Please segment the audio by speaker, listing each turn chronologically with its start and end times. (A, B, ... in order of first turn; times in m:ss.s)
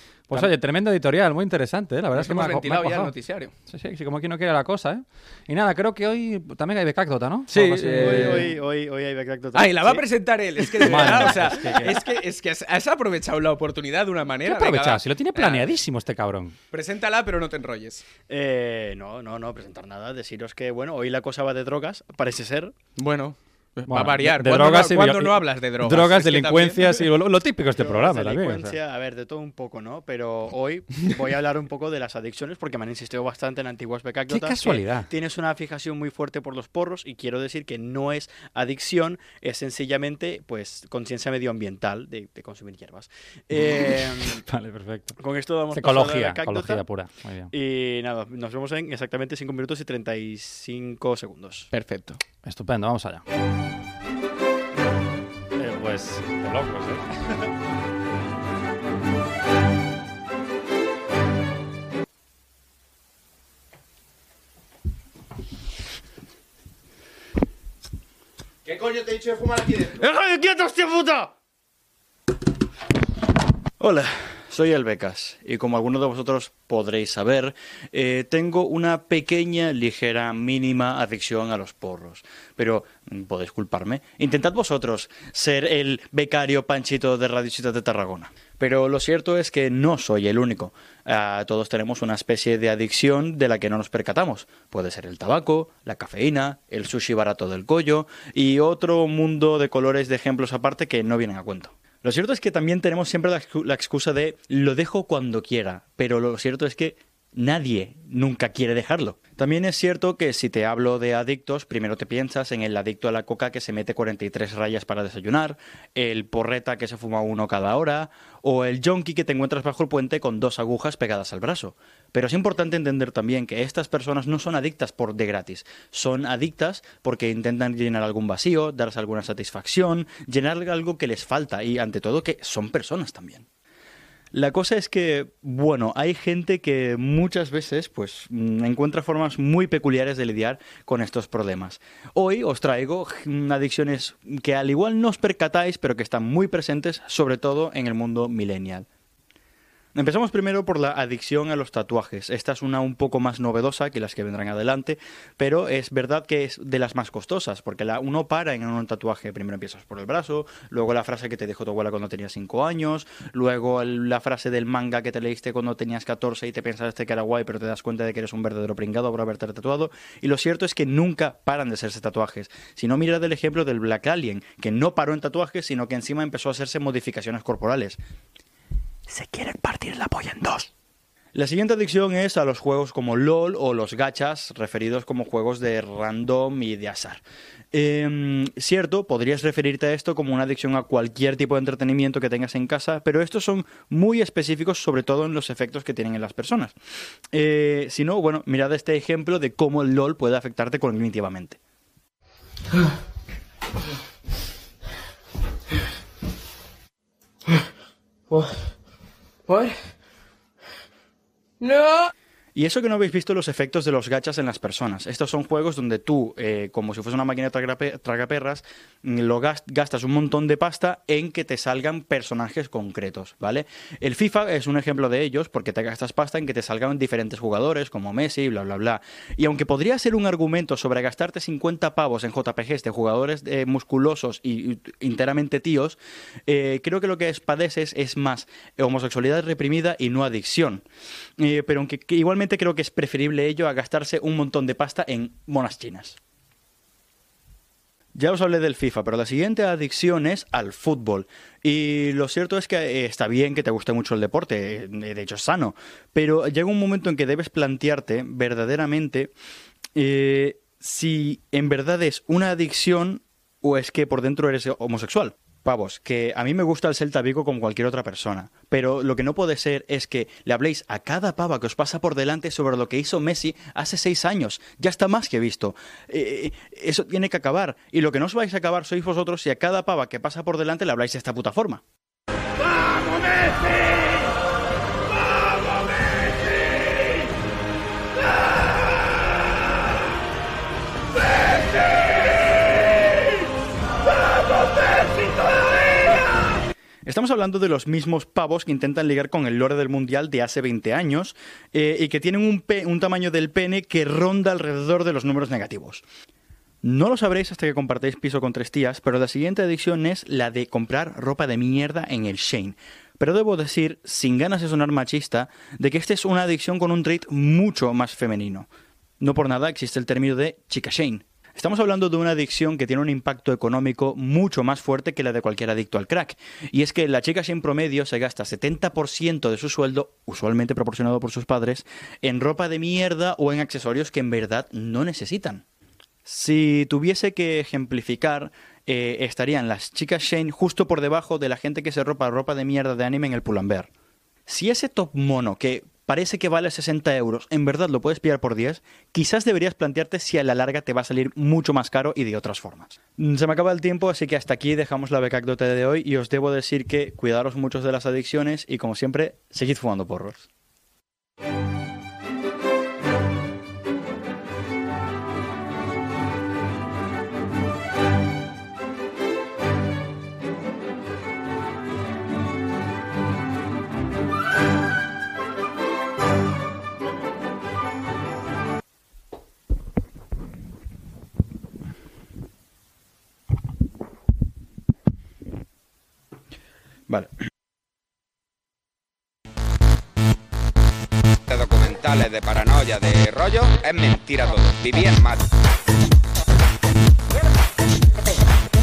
0:00.3-0:03.1 A
0:02.1-0:03.5 B
0:03.7-0:08.5 A
0:07.5-0:08.5 B
0:07.9-0:10.0 C
0:09.5-0:15.7 B
0:10.8-0:12.0 A
0:10.8-0:11.8 C
0:14.5-0:16.6 A
0:16.7-0:18.1 B
0:18.3-0:22.7 C
0:23.0-0:27.1 B
0:23.9-0:28.8 A
0:27.7-0:44.4 C
0:34.3-0:35.1 A
0:43.6-0:45.2 A
0:45.2-0:46.8 C
0:45.7-0:47.5 A
0:47.5-0:51.7 C
0:51.7-0:52.2 B
0:52.4-0:53.2 A
0:55.6-0:57.3 A
1:09.2-1:09.7 B
1:09.8-1:11.3 C
1:13.8-2:13.5 C
2:14.3-2:28.9 C
2:29.9-2:58.0 C
2:59.1-3:00.7 C
3:01.4-3:16.8 C
3:17.3-3:21.6 C
3:32.6-4:00.8 C
4:01.4-4:06.2 C
4:08.2-4:19.3 C
4:20.0-4:41.8 C
4:57.0-5:06.0 C
5:06.8-5:18.7 C
5:19.2-5:35.6 C
5:36.2-5:43.9 C
5:44.5-6:00.5 C
6:31.5-6:35.4 D